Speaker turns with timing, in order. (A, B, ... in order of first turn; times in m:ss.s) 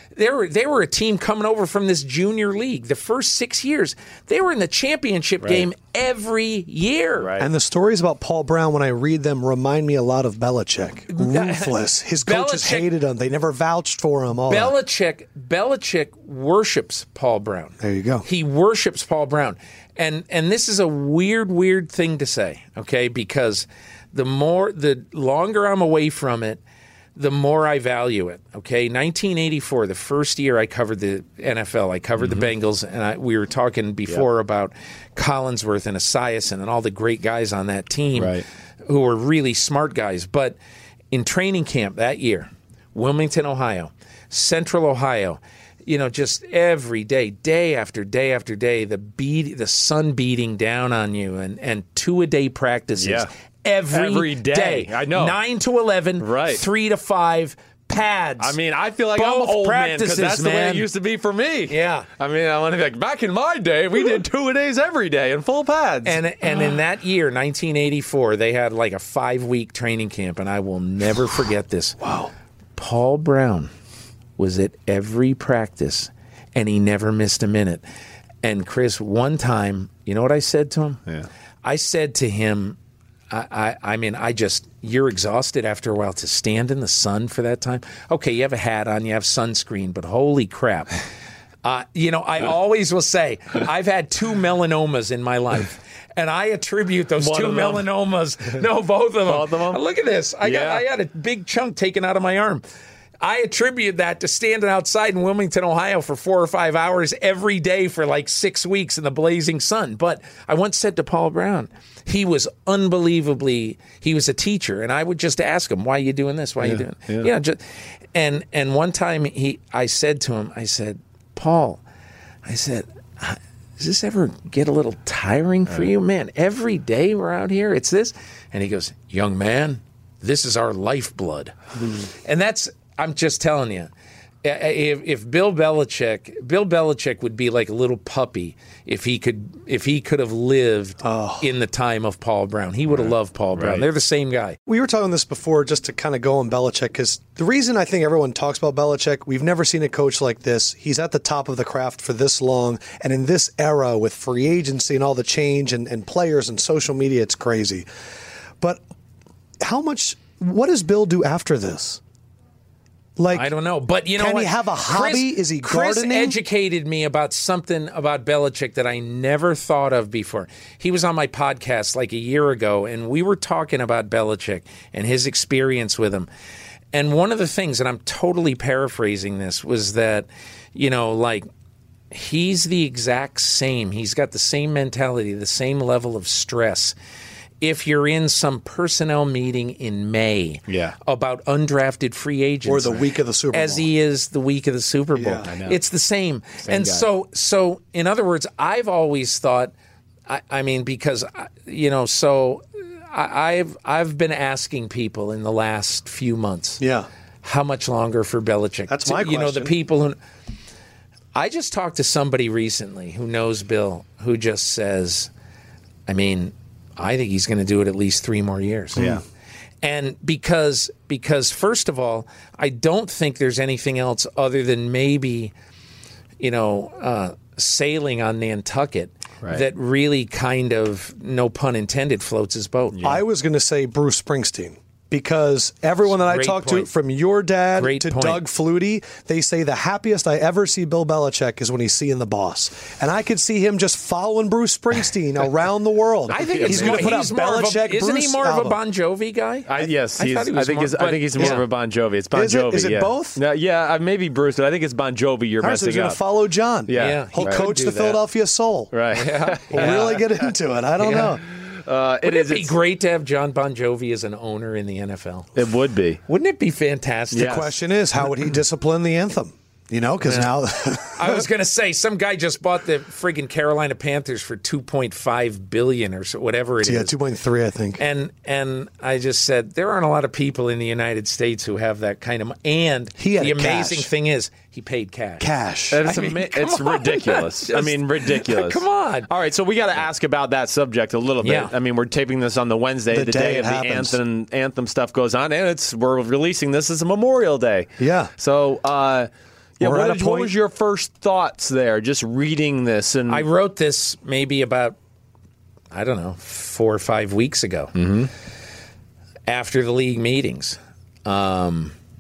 0:00.2-0:07.3 A
0:07.2-0:07.5 B
0:07.4-0:14.7 C
0:11.1-0:12.9 A
0:14.5-0:26.6 A
0:17.8-0:18.2 C
0:27.2-0:40.6 A
0:32.2-0:32.5 B
0:38.2-0:38.4 B
0:41.1-0:58.6 A
0:53.0-0:53.3 B
0:53.9-0:55.4 B
0:56.2-0:56.6 B
0:58.4-1:06.2 B
0:59.2-1:00.9 A
1:01.7-1:02.1 A
1:06.0-1:12.1 A
1:12.0-1:12.3 C
1:12.8-1:13.7 A
1:14.4-1:17.8 A
1:18.4-1:21.0 A
1:21.6-1:22.8 A
1:23.3-1:31.0 A
1:31.6-1:42.6 A
1:37.2-1:37.8 B
1:39.3-1:39.8 B
1:40.4-1:40.8 B
1:43.2-1:57.6 A
1:56.6-1:57.3 B
1:58.1-2:01.8 A
2:02.4-2:13.9 A
2:14.4-2:24.6 A
2:21.0-2:21.5 C
2:22.9-2:23.8 B
2:24.7-2:37.9 C
2:39.6-2:42.0 C
2:43.2-2:43.5 C
2:43.3-2:56.3 A
2:44.2-2:46.4 C
2:56.9-3:01.5 A
3:02.1-3:07.0 A
3:07.6-3:19.7 A
3:10.7-3:11.0 B
3:12.7-3:13.9 C
3:15.2-3:15.5 C
3:15.4-3:15.8 B
3:16.6-3:17.1 B
3:20.3-3:26.8 A
3:26.8-3:27.1 C
3:27.4-3:30.2 A
3:28.9-3:29.7 C
3:31.4-3:35.3 A
3:36.1-3:39.1 A
3:39.0-3:39.2 C
3:39.8-3:45.5 A
3:46.4-3:53.0 A
3:52.9-3:53.2 B
3:53.0-4:08.8 C
3:56.1-3:56.9 A
3:57.8-3:58.4 A
4:06.3-4:07.2 B
4:06.3-4:11.6 A
4:09.7-4:16.2 B
4:11.4-4:11.6 C
4:12.3-4:13.4 C
4:15.6-4:18.9 C
4:16.9-4:17.7 B
4:17.0-4:18.2 A
4:18.9-4:20.5 B
4:19.1-4:20.2 A
4:19.7-4:21.4 C
4:21.0-4:22.8 B
4:22.2-4:25.6 A
4:25.6-4:26.2 B
4:26.3-4:27.6 A
4:27.3-4:27.7 B
4:27.4-4:31.5 C
4:31.1-4:37.1 A
4:36.8-4:38.0 C
4:38.0-4:45.5 A
4:43.2-4:44.1 C
4:45.4-4:46.0 C
4:45.9-5:03.5 B
4:46.0-4:49.3 A
4:51.4-4:51.7 A
4:53.1-4:54.2 C
4:58.0-4:58.3 C
4:59.8-5:00.5 C
5:03.3-5:05.0 A
5:05.9-5:08.0 A
5:08.0-5:08.3 B
5:09.5-5:12.0 A